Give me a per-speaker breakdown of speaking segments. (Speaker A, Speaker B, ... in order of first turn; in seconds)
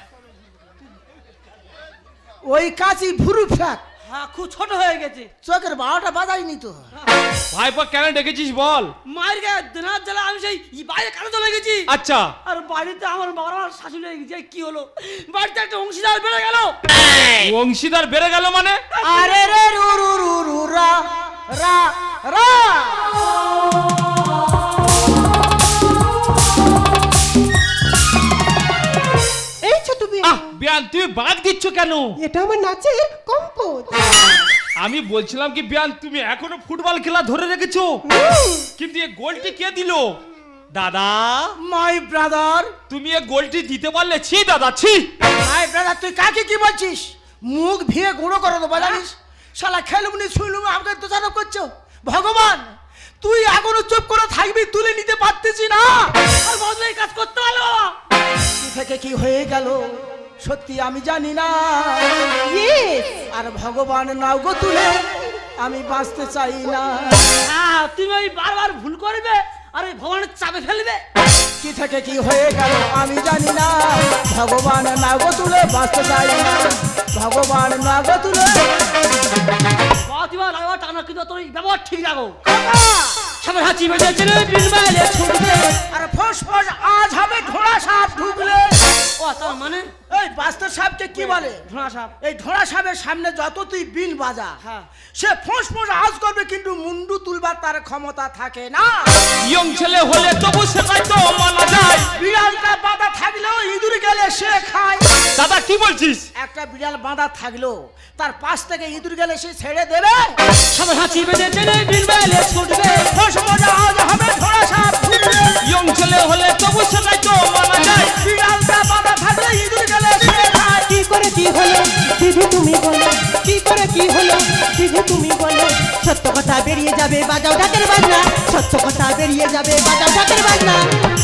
Speaker A: 2.5-3.8, 5.4-6.8, 19.0-23.1, 41.6-42.7, 45.4-56.1, 58.6-62.3, 63.3-67.3, 71.6-78.8, 82.5-83.3, 85.9-88.8, 90.1-91.7, 92.2-94.6, 95.2-99.3, 102.1-105.1, 106.4-110.4, 113.1-115.6, 118.0-120.9
Speaker B: 4.1-5.3, 9.1-11.9, 12.5-16.8, 18.9-19.5, 56.4-58.0, 67.4-71.0, 80.1-82.4, 83.4-85.8, 89.2-89.9, 91.3-92.1, 94.6-94.9, 110.7-113.1
Speaker C: 7.5-8.9, 11.9-12.3, 17.3-18.8, 30.2-32.1, 34.8-38.0, 38.8-40.2, 40.7-41.5, 42.9-45.1, 99.4-102.1, 105.4-106.3, 115.6-118.1
Speaker D: 29.6-30.4, 32.2-34.2, 38.0-38.7, 62.5-63.2, 120.9-125.8
Speaker E: 126.0-130.9